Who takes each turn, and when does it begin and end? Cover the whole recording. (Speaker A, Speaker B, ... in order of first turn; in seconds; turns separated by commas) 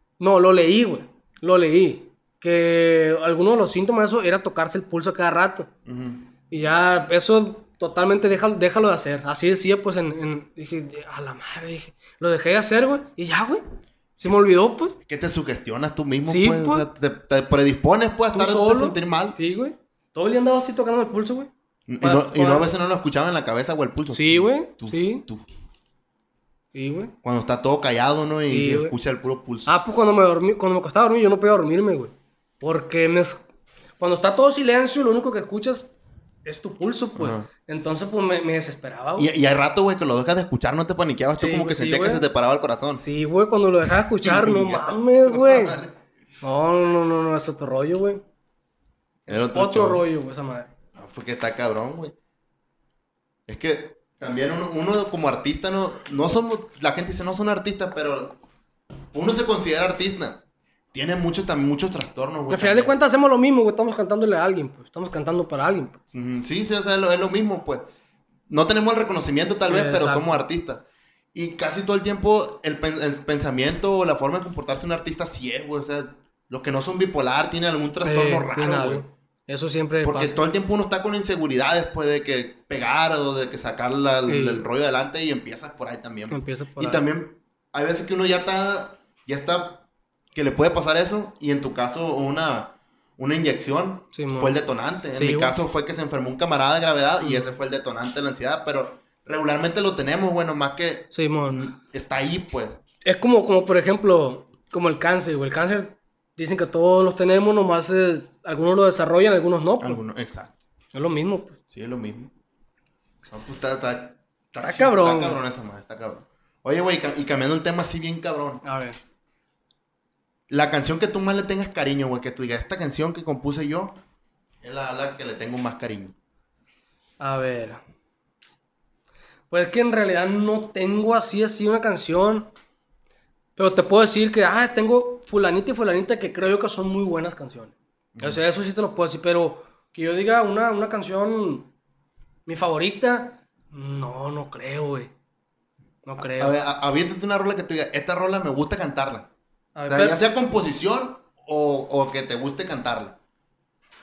Speaker A: 0.2-5.7, Speaker B: 5.9-6.3, Speaker A: 6.5-13.6, Speaker A: 14.2-15.0, Speaker B: 15.1-19.4, Speaker A: 16.3-16.9, Speaker A: 18.3-22.7, Speaker B: 21.9-25.5, Speaker A: 24.1-25.3, Speaker A: 26.7-27.1, Speaker B: 27.2-29.7, Speaker A: 28.5-28.9, Speaker A: 29.7-33.4, Speaker A: 34.0-35.9, Speaker A: 36.5-39.3, Speaker B: 37.1-37.5, Speaker B: 39.2-43.0, Speaker A: 41.4-42.2, Speaker A: 43.0-45.8, Speaker B: 43.9-45.9, Speaker A: 46.4-48.2, Speaker B: 49.3-50.0, Speaker A: 49.3-50.7, Speaker B: 51.0-52.1, Speaker B: 53.5-58.4, Speaker B: 59.1-60.4, Speaker B: 60.9-63.0, Speaker A: 62.5-66.0, Speaker B: 66.1-67.9, Speaker B: 68.5-79.0, Speaker A: 69.7-70.4, Speaker A: 78.0-80.4, Speaker B: 80.0-102.8, Speaker A: 84.3-84.6, Speaker A: 86.3-87.1, Speaker A: 94.1-94.5, Speaker A: 95.1-95.6, Speaker A: 97.2-97.6, Speaker A: 101.1-101.7, Speaker A: 103.0-110.0, Speaker B: 109.8-110.6, Speaker A: 110.9-111.6, Speaker B: 111.7-112.3, Speaker B: 113.3-118.6, Speaker A: 114.6-115.4, Speaker A: 118.6-119.0, Speaker B: 120.5-124.0, Speaker B: 124.6-126.1, Speaker A: 127.2-127.8, Speaker A: 129.5-132.5, Speaker A: 133.6-141.7, Speaker B: 138.2-138.4, Speaker A: 142.5-145.1, Speaker A: 146.1-146.6, Speaker B: 146.2-149.3, Speaker A: 149.8-150.3, Speaker B: 149.9-153.2